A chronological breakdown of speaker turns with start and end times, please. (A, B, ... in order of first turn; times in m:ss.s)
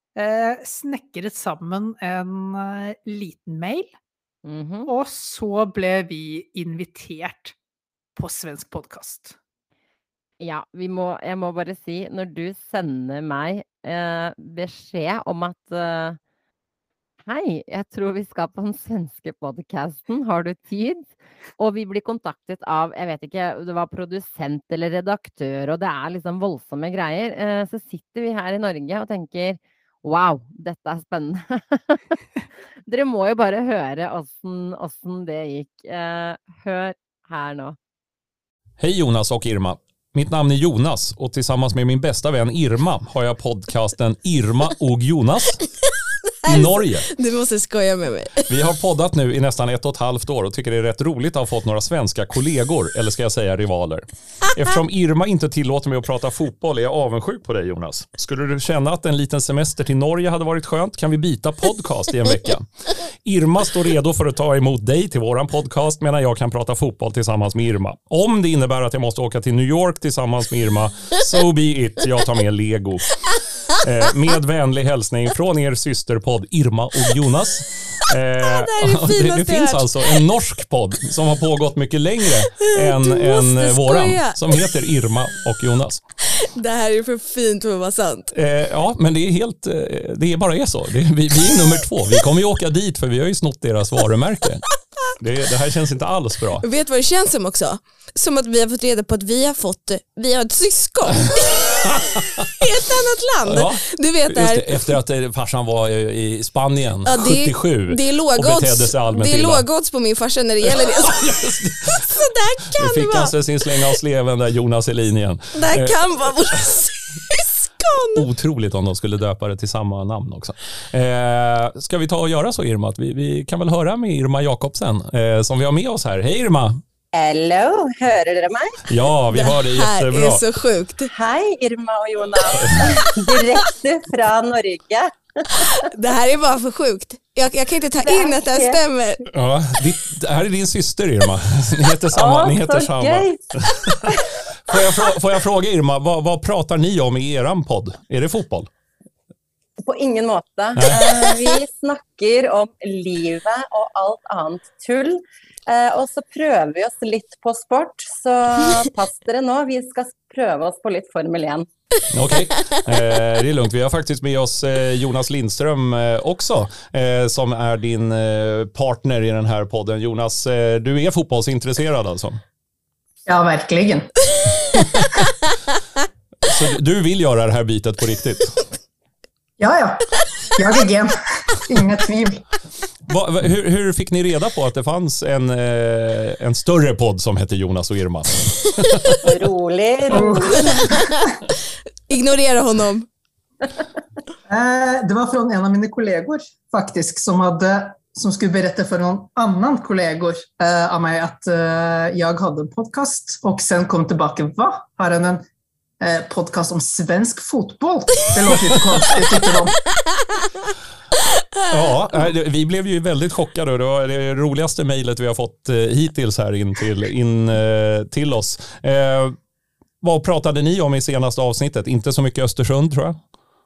0:00.2-0:03.9 A
0:04.4-0:04.9 B
0:04.9-0:07.6 A
0:08.2-0:09.4 A
0:10.4-0:16.2 B
0:17.2-0:32.2 B
0:32.9-0:37.8 B
0:38.8-0:45.6 C
0:46.4-0:48.5 D
0:46.5-0:47.1 C
0:48.5-1:13.2 C
1:13.7-1:26.0 C
1:18.4-1:20.3 D
1:22.5-1:24.8 D
1:26.4-1:28.3 D
1:28.3-1:34.7 C
1:35.2-1:36.6 C
1:36.6-1:41.7 D
1:41.9-1:42.5 C
1:42.5-1:44.9 D
1:43.5-1:49.7 C
1:47.1-1:54.0 D
1:50.7-1:52.2 C
1:52.8-1:56.8 C
1:55.6-1:58.3 D
1:58.2-2:06.8 C
2:07.1-2:08.8 E
2:08.9-2:10.4 C
2:09.3-2:11.1 D
2:11.1-2:15.9 E
2:15.7-2:19.2 D
2:18.0-2:18.8 E
2:19.3-2:28.7 C
2:22.1-2:24.9 E
2:29.8-2:41.7 E
2:30.8-2:31.0 C
2:42.1-2:52.4 C
2:53.3-2:54.1 F
2:56.4-2:58.6 C
2:59.6-3:02.4 F
3:03.1-3:09.2 C
3:09.2-3:11.0 E
3:10.1-3:10.8 F
3:10.7-3:11.3 D
3:12.1-3:13.1 D
3:14.5-3:25.4 F
3:26.0-3:29.8 F
3:31.7-3:39.4 C
3:40.0-3:43.2 C